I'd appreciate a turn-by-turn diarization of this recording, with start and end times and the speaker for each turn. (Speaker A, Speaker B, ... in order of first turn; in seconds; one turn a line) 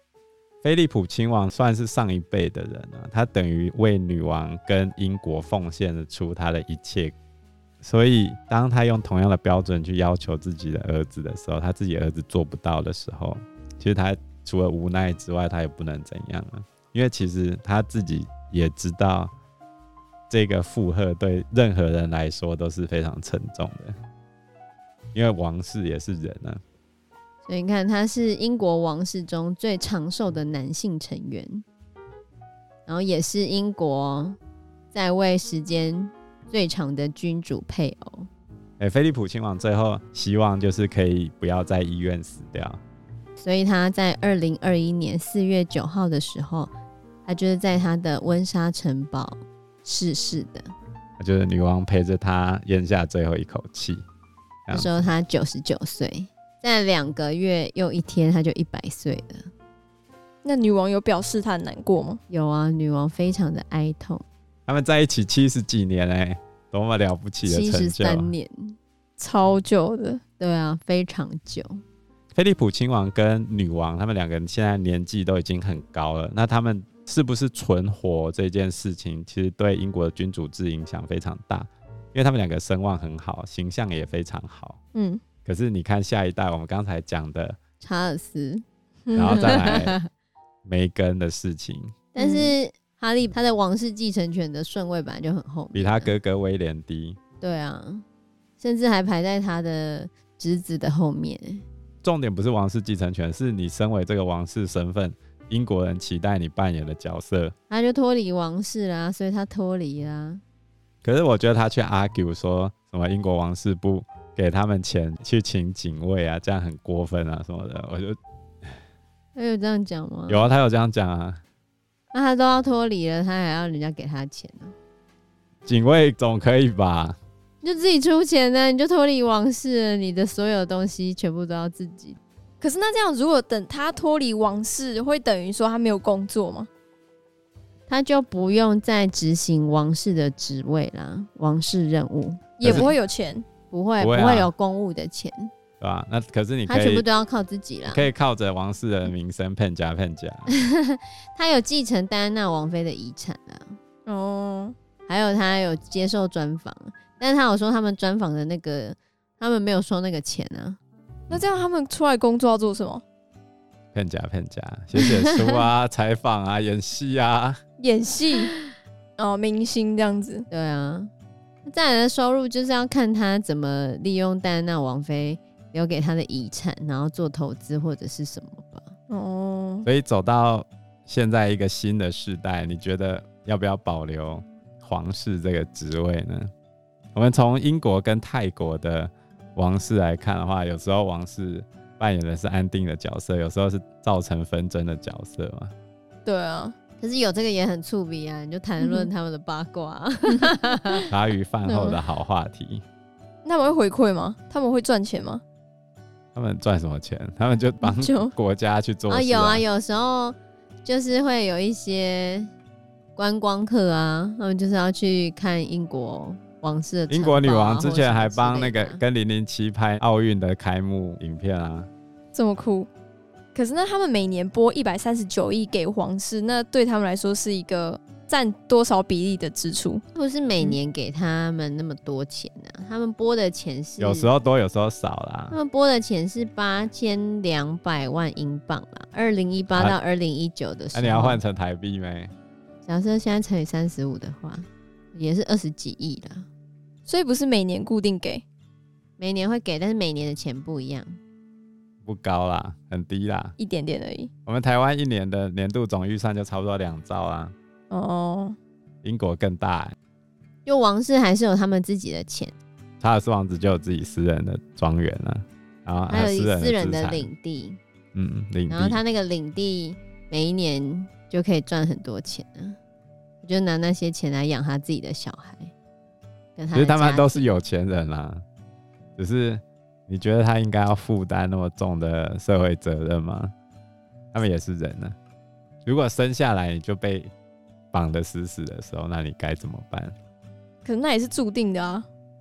Speaker A: 0.6-7.1
Speaker A: 7.8-19.3
Speaker A: 20.3-24.0
Speaker A: 25.1-26.6
Speaker B: 27.5-31.6
Speaker B: 32.9-34.4
Speaker B: 34.9-38.3
Speaker A: 38.8-42.8
Speaker B: 43.4-46.7
Speaker B: 47.3-50.7
Speaker A: 51.2-54.0
Speaker A: 54.7-55.1
Speaker B: 54.7-59.5
Speaker C: 60.4-62.2
Speaker B: 62.3-64.2
Speaker A: 64.7-68.3
Speaker B: 67.5-68.8
Speaker C: 69.2-70.2
Speaker B: 70.4-71.8
Speaker A: 72.3-84.8
Speaker C: 85.0-85.2
Speaker A: 85.5-87.6
Speaker B: 87.8-88.6
Speaker C: 89.1-89.8
Speaker B: 89.2-90.1
Speaker A: 89.2-90.0
Speaker A: 90.7-91.9
Speaker B: 92.2-96.1
Speaker C: 92.2-92.5
Speaker A: 95.7-97.2
Speaker B: 97.4-98.0
Speaker B: 98.6-101.7
Speaker A: 102.0-107.5
Speaker B: 107.7-110.4
Speaker A: 111.0-118.8
Speaker B: 119.3-120.5
Speaker A: 120.3-121.4
Speaker B: 122.1-124.8
Speaker A: 125.7-127.2
Speaker B: 127.6-132.2
Speaker C: 132.6-136.7
Speaker B: 137.9-142.9
Speaker C: 142.6-143.4
Speaker A: 142.6-142.9
Speaker B: 143.7-145.5
Speaker A: 144.0-144.5
Speaker A: 145.8-147.1
Speaker B: 146.7-148.1
Speaker A: 147.9-150.5
Speaker B: 150.5-153.8
Speaker C: 154.1-154.8
Speaker B: 155.1-160.8
Speaker C: 161.3-163.0
Speaker A: 163.9-167.6
Speaker C: 167.8-168.6
Speaker C: 169.2-170.5
Speaker B: 170.5-171.1
Speaker B: 171.7-178.9
Speaker C: 179.1-179.9
Speaker A: 179.8-186.5
Speaker A: 187.2-195.7
Speaker C: 196.3-196.7
Speaker B: 197.0-201.0
Speaker C: 198.8-199.1
Speaker C: 200.3-201.0
Speaker A: 201.1-202.8
Speaker B: 201.7-202.0
Speaker C: 203.4-205.4
Speaker A: 206.3-209.6
Speaker C: 207.8-208.3
Speaker B: 209.1-212.5
Speaker B: 213.2-219.0
Speaker A: 217.1-221.9
Speaker C: 222.3-222.9
Speaker C: 223.6-230.0
Speaker B: 230.2-234.3
Speaker A: 234.0-235.6
Speaker B: 235.5-241.4
Speaker A: 240.9-242.3
Speaker B: 242.8-246.5
Speaker C: 247.1-248.4
Speaker B: 249.2-251.2
Speaker A: 252.0-253.6
Speaker C: 253.6-254.3
Speaker A: 254.5-257.5
Speaker C: 257.9-258.6
Speaker A: 259.0-260.0
Speaker B: 260.6-262.6
Speaker A: 263.0-267.3
Speaker B: 266.1-267.8
Speaker A: 268.1-269.0
Speaker B: 268.7-272.8
Speaker B: 273.4-275.7
Speaker B: 276.6-277.5
Speaker A: 276.7-278.4
Speaker A: 279.2-283.5
Speaker A: 284.3-285.2
Speaker A: 285.9-287.3
Speaker A: 287.9-290.1
Speaker C: 290.9-292.1